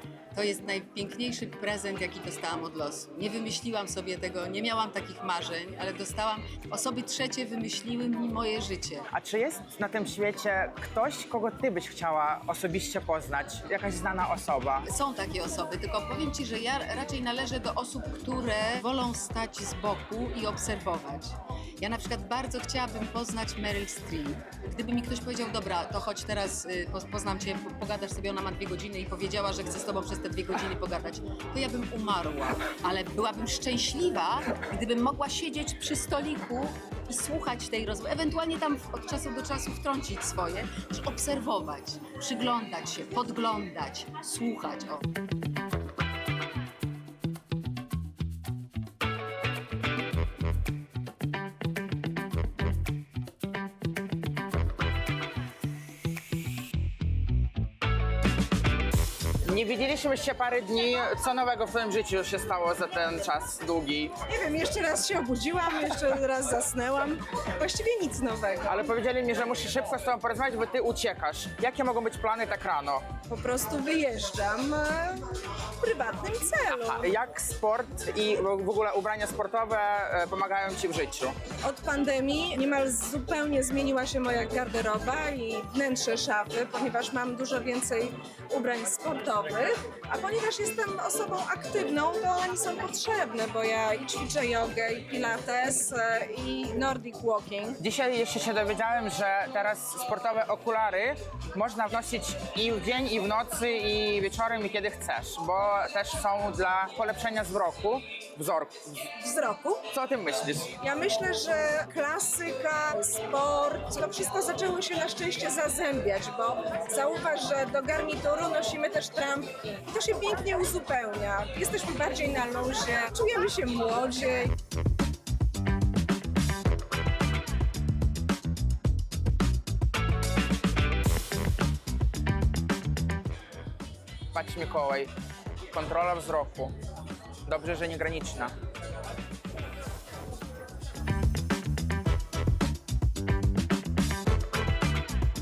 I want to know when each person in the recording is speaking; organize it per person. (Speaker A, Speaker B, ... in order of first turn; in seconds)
Speaker A: 0.3-9.1, 14.9-45.0
Speaker B: 9.1-14.9, 59.4-64.2, 68.7-73.1, 76.7-81.3, 97.8-109.0, 109.9-110.7, 134.3-135.1, 135.7-136.7, 137.5-138.5
Speaker C: 64.3-68.9, 73.3-75.3, 75.8-77.1, 81.6-97.8, 109.2-109.8, 110.8-124.5